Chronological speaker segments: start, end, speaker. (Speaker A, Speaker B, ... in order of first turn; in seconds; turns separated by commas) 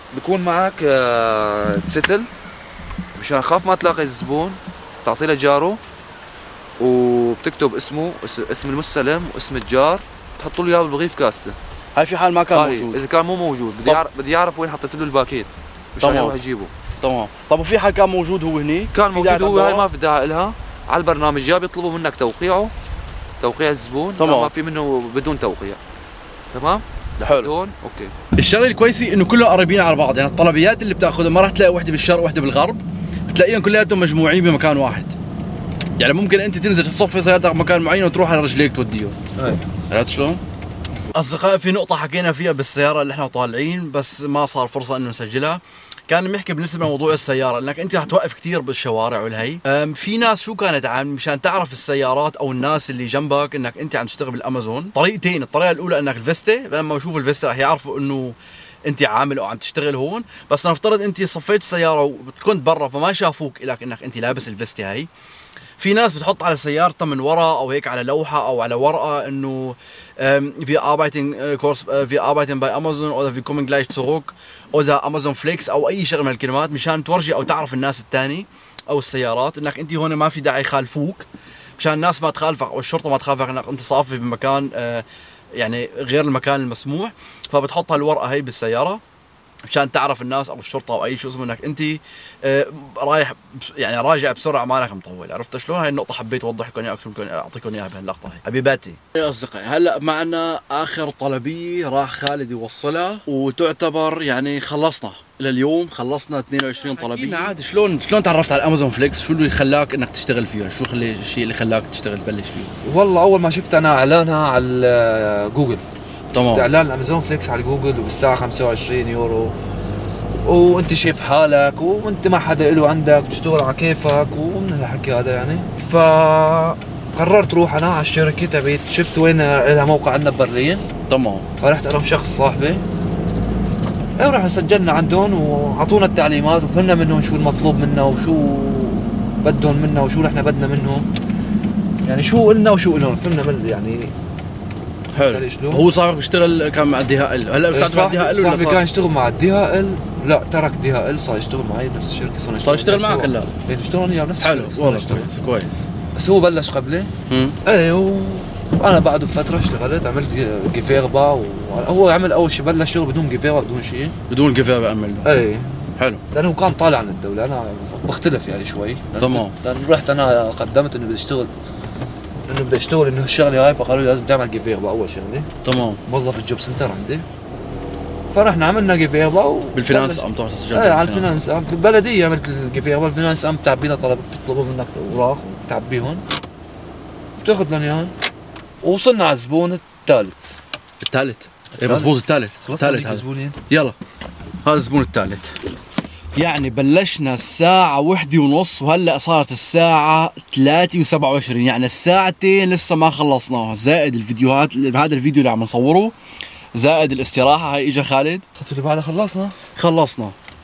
Speaker A: 0.1-2.3, Speaker A: 3.1-5.8, Speaker A: 6.8-11.6, Speaker B: 11.9-13.0, Speaker A: 12.5-16.7, Speaker B: 16.0-16.4, Speaker B: 17.0-19.9, Speaker A: 18.9-22.7, Speaker A: 23.4-25.8, Speaker B: 24.2-24.5, Speaker A: 26.5-28.1, Speaker B: 27.2-27.5, Speaker B: 28.4-35.1, Speaker B: 36.0-39.2, Speaker A: 39.4-39.6, Speaker B: 39.9-40.4, Speaker B: 41.1-65.1, Speaker B: 65.8-81.3, Speaker B: 81.8-89.0, Speaker B: 89.7-112.7, Speaker A: 106.8-107.5, Speaker A: 112.8-115.8, Speaker B: 116.3-116.7, Speaker A: 116.4-119.5, Speaker A: 120.4-130.9, Speaker B: 131.1-131.4, Speaker A: 131.6-132.8, Speaker A: 134.2-141.1, Speaker A: 142.0-144.1, Speaker B: 145.1-148.8, Speaker A: 145.2-145.9, Speaker A: 147.7-155.3, Speaker B: 152.6-153.5, Speaker B: 154.4-155.8, Speaker A: 156.1-157.1, Speaker B: 157.3-157.6, Speaker A: 157.6-164.1, Speaker B: 164.3-165.3, Speaker A: 165.2-171.5, Speaker B: 169.2-169.5, Speaker A: 172.5-175.5, Speaker B: 175.6-176.0, Speaker A: 176.1-177.2, Speaker A: 178.3-186.2, Speaker B: 179.7-181.3, Speaker A: 187.4-188.1, Speaker A: 188.8-190.3, Speaker B: 191.0-193.9, Speaker A: 191.8-193.6, Speaker B: 194.6-195.5, Speaker B: 196.3-206.1, Speaker B: 206.7-208.4, Speaker A: 208.6-209.6, Speaker B: 209.8-210.3